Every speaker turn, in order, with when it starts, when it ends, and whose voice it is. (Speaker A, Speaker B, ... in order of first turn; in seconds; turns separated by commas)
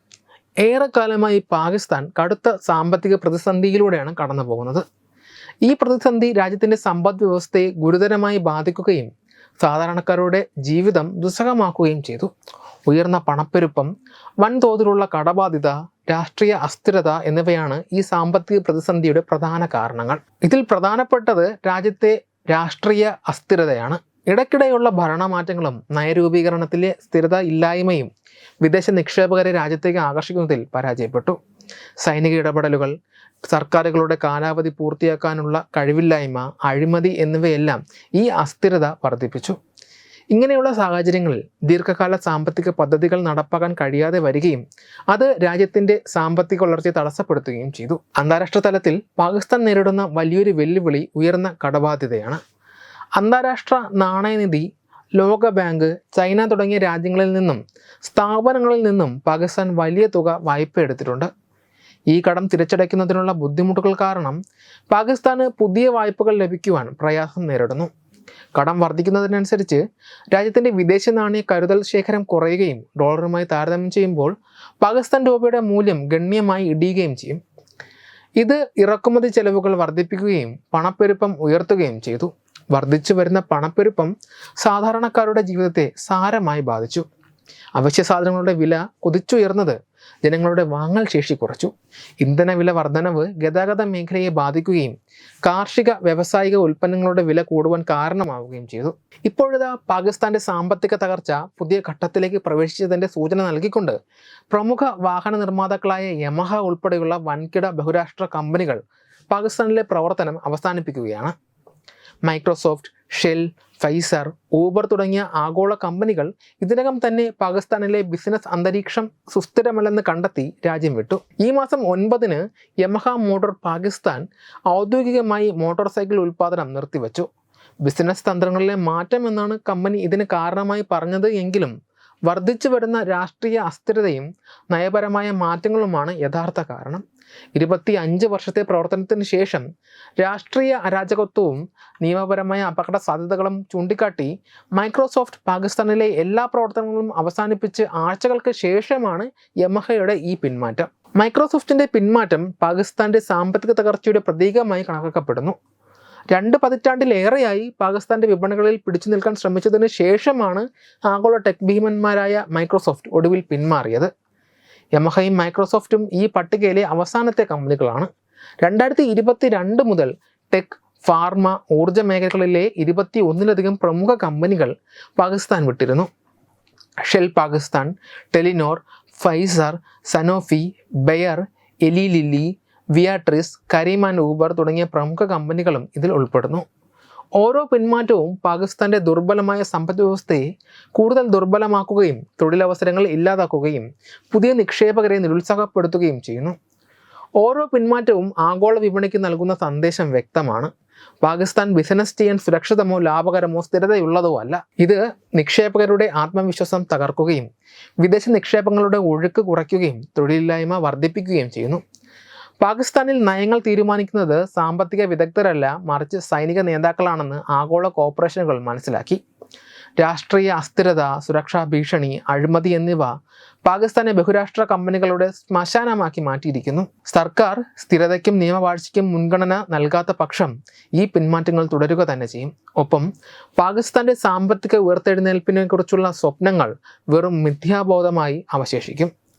Speaker A: 0.6-4.8, Speaker A: 5.7-12.3, Speaker A: 12.9-28.1, Speaker A: 28.6-31.4, Speaker A: 32.0-32.9, Speaker A: 33.5-39.6, Speaker A: 40.3-52.4, Speaker A: 53.2-54.7, Speaker A: 55.2-61.3, Speaker A: 62.1-67.9, Speaker A: 68.5-69.8, Speaker A: 70.3-77.4, Speaker A: 78.4-87.1, Speaker A: 87.8-104.0, Speaker A: 104.5-111.3, Speaker A: 112.2-127.3, Speaker A: 127.8-131.7, Speaker A: 132.3-137.0, Speaker A: 137.6-139.6, Speaker A: 140.2-155.6, Speaker A: 156.3-164.1, Speaker A: 165.0-168.1, Speaker A: 168.6-176.1, Speaker A: 177.0-186.7, Speaker A: 187.4-190.4, Speaker A: 191.0-196.6, Speaker A: 197.4-200.7, Speaker A: 201.2-207.5, Speaker A: 208.0-211.8, Speaker A: 212.6-219.2, Speaker A: 220.0-223.1, Speaker A: 223.7-239.1